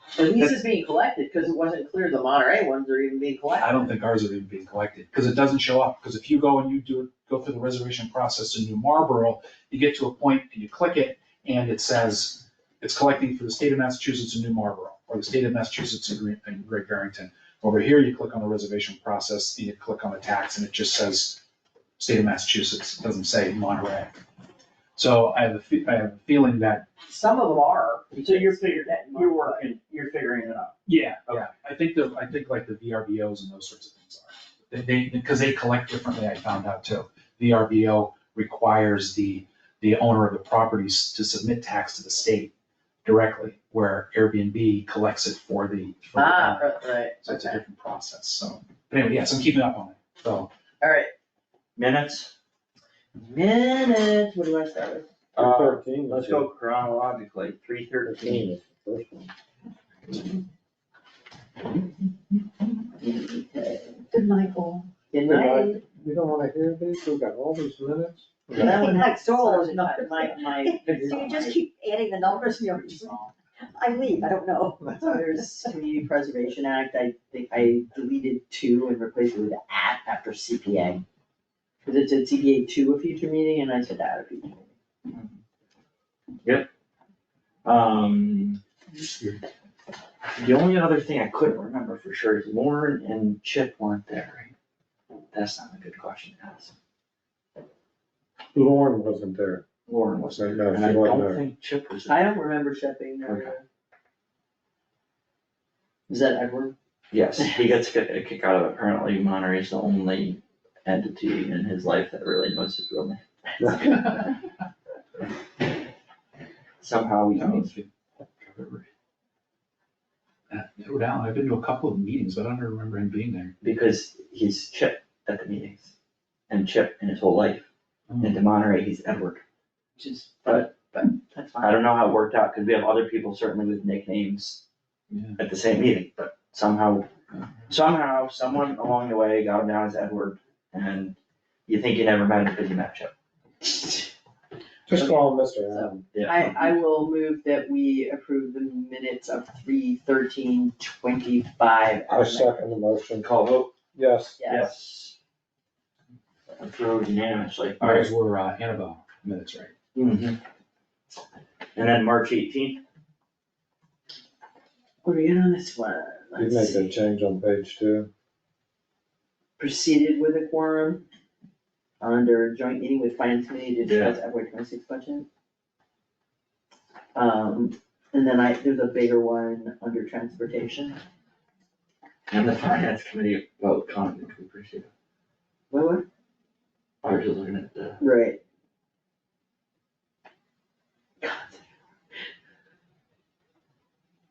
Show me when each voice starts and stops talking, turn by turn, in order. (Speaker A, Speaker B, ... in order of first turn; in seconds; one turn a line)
Speaker A: 0.1-3.9
Speaker B: 3.6-21.4
Speaker B: 22.0-24.2
Speaker B: 24.9-26.9
Speaker A: 27.1-29.7
Speaker C: 28.2-30.7
Speaker B: 30.9-42.5
Speaker B: 43.0-50.5
Speaker A: 46.1-47.6
Speaker A: 50.8-51.1
Speaker C: 51.8-52.3
Speaker A: 53.1-55.1
Speaker C: 55.4-58.5
Speaker D: 55.4-56.5
Speaker D: 58.0-59.3
Speaker A: 63.0-64.0
Speaker E: 64.1-64.9
Speaker A: 65.1-65.8
Speaker D: 65.2-68.8
Speaker A: 68.5-71.6
Speaker E: 68.5-75.1
Speaker D: 70.9-71.2
Speaker A: 74.9-81.0
Speaker A: 81.8-84.7
Speaker C: 85.1-85.4
Speaker C: 86.4-86.7
Speaker C: 87.6-88.6
Speaker C: 90.4-94.5
Speaker C: 95.3-96.7
Speaker D: 98.5-99.6
Speaker C: 99.8-102.3
Speaker D: 100.3-101.4
Speaker A: 102.0-103.6
Speaker C: 103.2-103.5
Speaker A: 106.1-106.7
Speaker C: 107.1-114.2
Speaker D: 113.6-113.9
Speaker C: 116.8-117.7
Speaker B: 117.4-118.9
Speaker B: 120.5-123.5
Speaker C: 123.6-125.9
Speaker C: 126.5-127.7
Speaker B: 128.1-128.4
Speaker C: 128.2-129.4
Speaker A: 130.0-131.8
Speaker C: 130.4-130.7
Speaker C: 131.6-134.6
Speaker B: 135.1-135.4
Speaker C: 135.4-137.1
Speaker C: 137.7-141.2
Speaker C: 141.7-143.1
Speaker D: 144.9-146.0
Speaker A: 144.9-152.6
Speaker C: 146.1-146.7
Speaker D: 152.1-153.3
Speaker C: 153.2-153.7
Speaker D: 153.9-154.4
Speaker A: 154.4-154.7
Speaker C: 154.5-155.2
Speaker C: 156.6-158.1
Speaker B: 157.8-159.7
Speaker C: 159.9-160.4
Speaker C: 161.7-162.8
Speaker A: 165.0-166.9
Speaker D: 166.3-168.1
Speaker A: 169.6-171.0
Speaker A: 172.0-175.2
Speaker C: 173.8-174.2
Speaker A: 177.1-181.0
Speaker C: 182.3-184.9
Speaker A: 185.7-186.0
Speaker C: 187.0-188.0
Speaker A: 188.0-188.4
Speaker A: 191.2-191.6